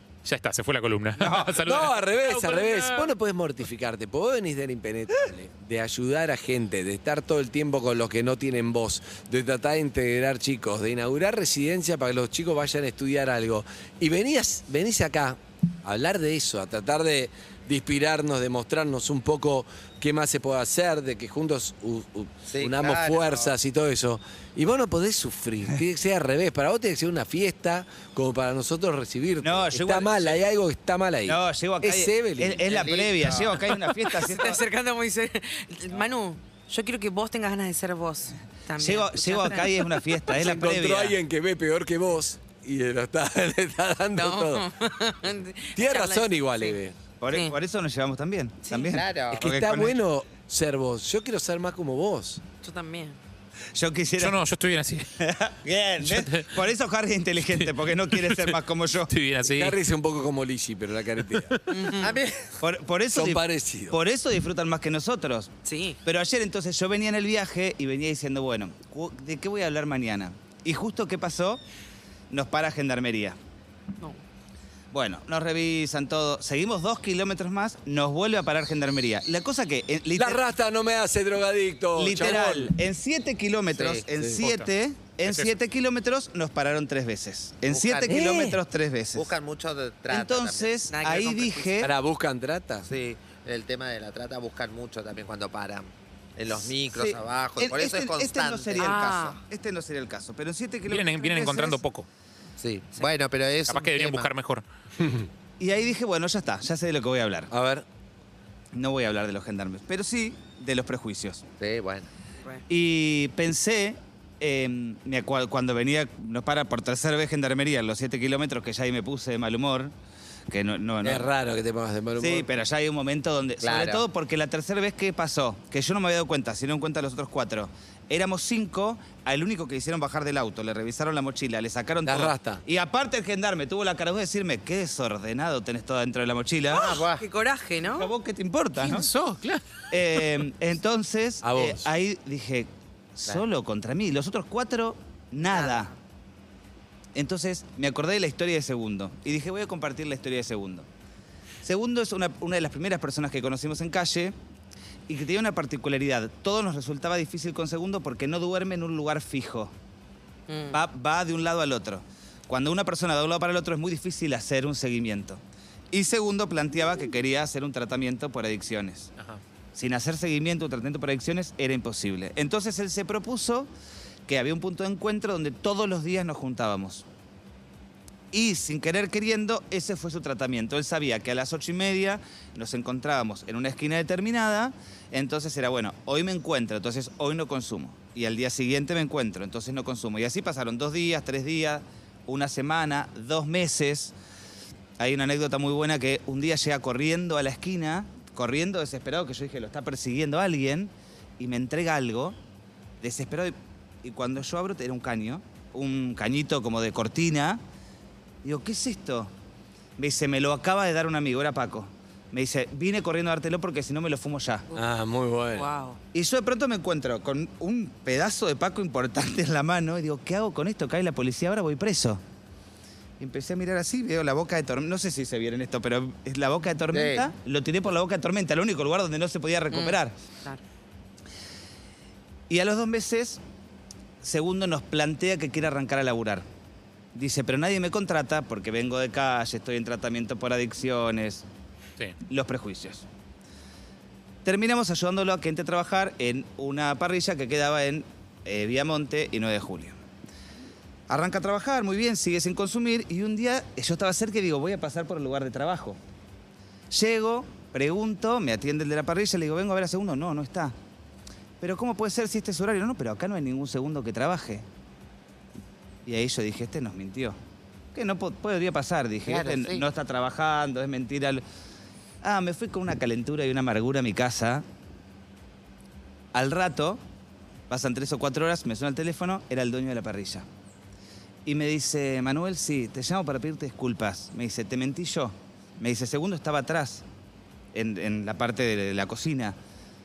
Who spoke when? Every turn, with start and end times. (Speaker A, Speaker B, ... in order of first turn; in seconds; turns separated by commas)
Speaker A: 0.2-3.1, Speaker B: 1.2-1.6, Speaker C: 1.6-32.7, Speaker D: 22.5-23.5, Speaker B: 29.4-30.4, Speaker B: 31.3-34.6, Speaker D: 32.7-33.5, Speaker E: 34.0-40.2, Speaker B: 38.8-41.2, Speaker C: 40.4-44.6, Speaker E: 44.1-46.8, Speaker C: 45.8-47.0, Speaker B: 47.2-50.0, Speaker E: 47.3-47.6, Speaker D: 48.7-49.5, Speaker C: 49.4-52.4, Speaker E: 52.6-53.2, Speaker B: 53.8-54.4, Speaker A: 54.2-55.1, Speaker B: 55.2-59.1, Speaker A: 56.0-56.5, Speaker A: 57.5-58.6, Speaker A: 59.1-59.8, Speaker C: 59.5-62.0, Speaker E: 61.7-62.1, Speaker D: 62.0-62.4, Speaker B: 62.6-65.5, Speaker C: 63.1-64.0, Speaker E: 65.7-66.0, Speaker B: 66.0-71.6, Speaker B: 72.3-73.4, Speaker B: 74.9-80.4, Speaker C: 80.2-82.7, Speaker B: 82.0-89.3, Speaker D: 83.8-84.1, Speaker C: 84.2-84.4, Speaker A: 84.4-84.7, Speaker A: 85.2-85.5, Speaker D: 87.7-88.5, Speaker C: 88.1-88.6, Speaker D: 89.2-90.8, Speaker B: 90.1-91.9, Speaker E: 90.9-91.8, Speaker C: 91.8-92.9, Speaker D: 92.9-99.4, Speaker B: 96.5-101.8, Speaker E: 98.8-99.3, Speaker A: 100.9-102.1, Speaker D: 102.6-104.3, Speaker A: 103.7-104.6, Speaker B: 105.6-107.5, Speaker C: 107.5-107.8, Speaker B: 108.7-111.4, Speaker D: 111.6-112.1, Speaker B: 112.7-119.9, Speaker B: 120.5-121.3, Speaker C: 121.0-122.5, Speaker B: 122.2-137.0, Speaker D: 123.6-124.0, Speaker C: 132.1-132.6, Speaker E: 136.7-138.1, Speaker D: 136.8-137.2, Speaker B: 137.9-139.1, Speaker A: 138.8-139.6, Speaker B: 139.9-145.9, Speaker C: 141.4-141.9, Speaker E: 145.5-145.9, Speaker B: 147.2-150.9, Speaker B: 151.6-154.3, Speaker B: 155.1-159.7, Speaker E: 160.5-160.8, Speaker B: 160.7-165.4, Speaker B: 165.9-169.1, Speaker B: 169.8-173.7, Speaker B: 174.3-177.1, Speaker B: 178.3-194.1, Speaker B: 195.0-202.4, Speaker B: 203.0-207.6, Speaker B: 208.4-209.3, Speaker B: 210.0-214.7, Speaker C: 214.8-215.7, Speaker E: 215.5-216.0, Speaker B: 216.1-222.2, Speaker B: 223.2-230.1, Speaker D: 226.9-227.3, Speaker E: 229.7-230.6, Speaker B: 232.5-233.4, Speaker B: 234.2-236.4, Speaker B: 237.2-241.4, Speaker B: 242.3-243.1, Speaker B: 244.4-249.9, Speaker B: 251.1-256.0, Speaker B: 256.9-260.7, Speaker B: 261.6-264.6, Speaker B: 266.1-267.4, Speaker B: 267.9-271.4, Speaker D: 269.3-269.8, Speaker B: 272.2-274.6, Speaker B: 276.3-277.0, Speaker B: 277.7-280.4, Speaker B: 281.4-287.0, Speaker B: 287.7-289.6